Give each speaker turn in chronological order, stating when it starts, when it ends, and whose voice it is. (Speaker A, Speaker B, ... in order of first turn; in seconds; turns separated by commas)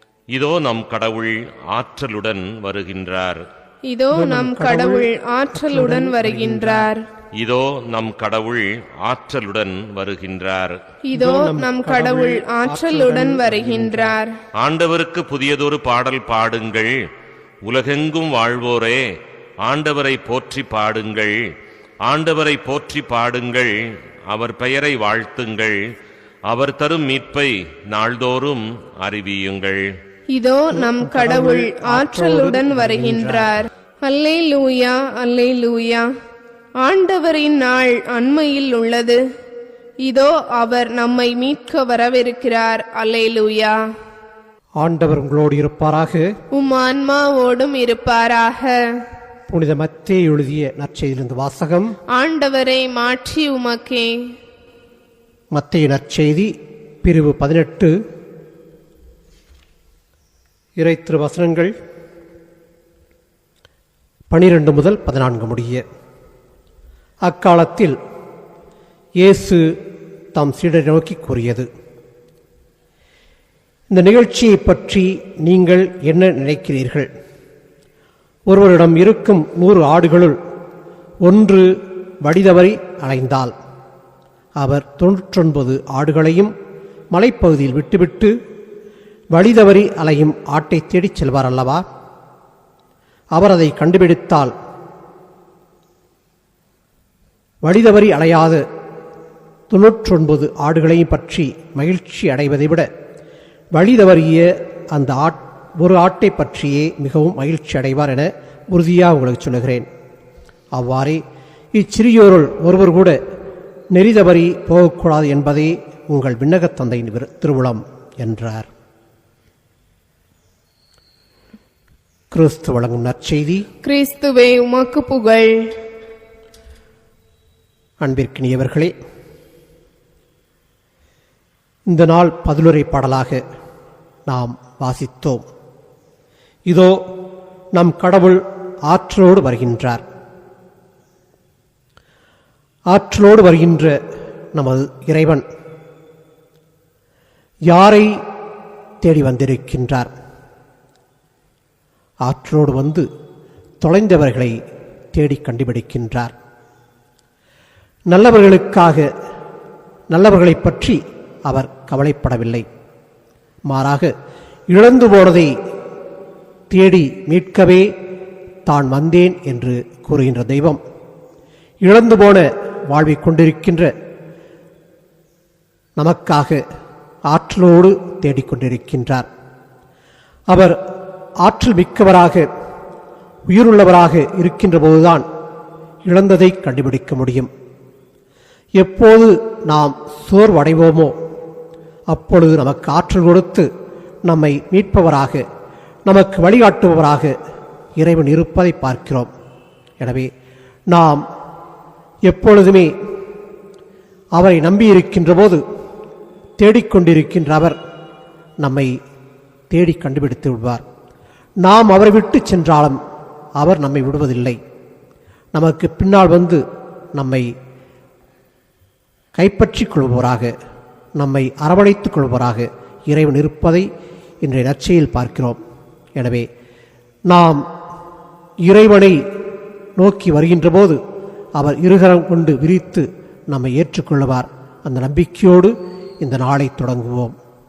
Speaker A: 0.3-3.4, Speaker B: 3.9-7.0, Speaker C: 4.1-6.9, Speaker A: 7.4-10.8, Speaker B: 11.1-14.3, Speaker C: 11.1-14.2, Speaker A: 14.6-16.9, Speaker A: 17.6-19.0, Speaker A: 19.6-21.3, Speaker A: 22.1-23.7, Speaker A: 24.3-25.7, Speaker A: 26.5-29.8, Speaker B: 30.3-36.0, Speaker C: 30.7-33.6, Speaker B: 36.8-39.2, Speaker B: 40.0-43.7, Speaker C: 44.8-46.2, Speaker B: 46.5-48.8, Speaker C: 49.5-51.9, Speaker B: 52.1-54.2, Speaker C: 55.5-56.5, Speaker C: 57.0-57.9, Speaker C: 60.8-61.7, Speaker C: 64.3-65.8, Speaker C: 67.2-68.0, Speaker C: 69.2-69.6, Speaker C: 70.3-71.7, Speaker C: 73.9-77.1, Speaker C: 78.5-80.3, Speaker C: 81.2-81.7, Speaker C: 82.2-83.5, Speaker C: 84.6-86.5, Speaker C: 87.1-88.3, Speaker C: 89.3-91.8, Speaker C: 93.3-94.5, Speaker C: 97.6-98.6, Speaker C: 99.7-102.9, Speaker C: 103.7-109.9, Speaker C: 110.7-111.2, Speaker C: 111.7-113.2, Speaker C: 113.9-118.7, Speaker C: 122.3-123.7, Speaker B: 123.8-125.5, Speaker C: 128.0-128.9, Speaker C: 131.9-133.4, Speaker C: 134.3-135.4, Speaker C: 136.7-136.9, Speaker C: 137.7-140.0, Speaker C: 142.9-143.9, Speaker C: 144.5-145.4, Speaker C: 147.7-148.1, Speaker C: 149.0-150.1, Speaker C: 152.2-153.0, Speaker C: 153.8-154.5, Speaker C: 155.1-156.3, Speaker C: 158.1-159.1, Speaker C: 160.1-162.7, Speaker C: 163.7-164.1, Speaker C: 164.7-165.5, Speaker C: 166.7-167.9, Speaker C: 168.7-170.8, Speaker C: 171.8-173.9, Speaker C: 176.0-176.6, Speaker C: 177.3-179.3, Speaker C: 181.4-182.5, Speaker C: 183.5-185.2, Speaker C: 186.0-187.5, Speaker C: 188.8-191.1, Speaker C: 192.1-193.7, Speaker C: 194.3-195.4, Speaker C: 196.1-197.3, Speaker C: 198.0-199.3, Speaker C: 200.0-200.3, Speaker C: 200.9-201.2, Speaker C: 202.3-202.9, Speaker C: 204.3-205.6, Speaker C: 206.6-207.8, Speaker C: 208.6-208.9, Speaker C: 209.7-210.8, Speaker C: 211.6-213.0, Speaker C: 213.6-214.6, Speaker C: 215.5-216.6, Speaker C: 217.2-217.5, Speaker C: 219.3-220.5, Speaker C: 221.2-223.8, Speaker C: 224.4-225.6, Speaker C: 226.2-226.4, Speaker C: 227.3-227.6, Speaker C: 228.6-229.2, Speaker C: 230.0-231.0, Speaker C: 231.6-237.3